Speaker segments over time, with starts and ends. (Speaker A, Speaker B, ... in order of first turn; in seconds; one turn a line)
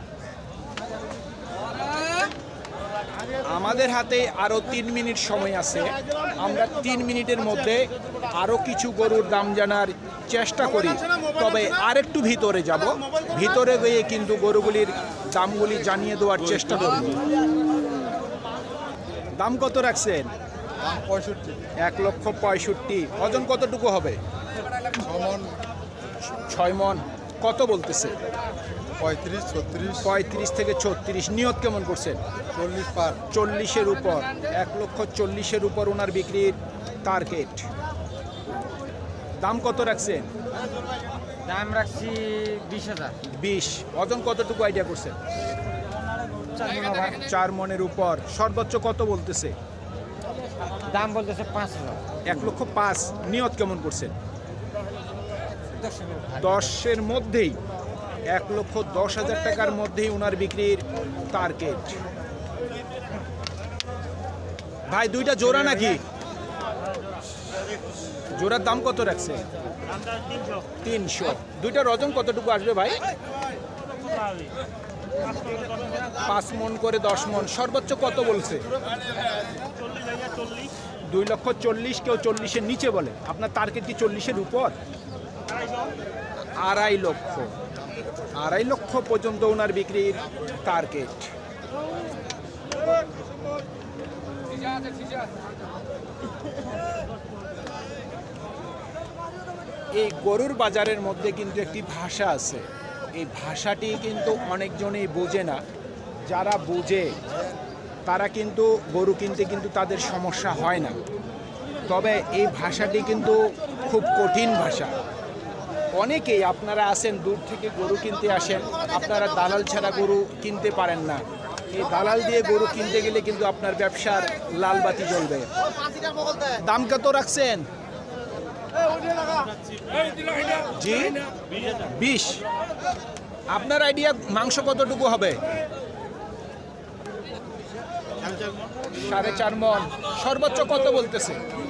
Speaker A: 3.4-17.2
Speaker A: 19.4-20.3
Speaker B: 21.0-21.5
Speaker A: 21.8-24.2
Speaker B: 25.0-25.5
Speaker A: 26.3-28.2
Speaker B: 29.0-29.9
Speaker A: 29.9-32.2
Speaker B: 32.5-33.2
Speaker A: 33.3-37.7
Speaker A: 39.4-40.3
Speaker C: 41.4-43.2
Speaker A: 43.4-45.2
Speaker C: 46.5-47.1
Speaker A: 46.9-49.5
Speaker C: 50.9-52.0
Speaker A: 52.2-54.1
Speaker C: 56.0-56.4
Speaker A: 56.4-57.6
Speaker A: 58.3-62.0
Speaker A: 64.9-66.0
Speaker A: 68.3-69.4
Speaker A: 70.8-73.0
Speaker A: 76.2-78.6
Speaker A: 81.1-84.7
Speaker A: 86.6-87.5
Speaker A: 88.3-91.3
Speaker A: 100.0-105.6
Speaker A: 106.3-107.2
Speaker A: 108.0-111.0
Speaker A: 111.9-115.0
Speaker A: 116.0-125.5
Speaker A: 126.4-127.7
Speaker A: 130.6-131.2
Speaker A: 131.8-132.4
Speaker A: 133.5-135.4
Speaker A: 138.9-141.4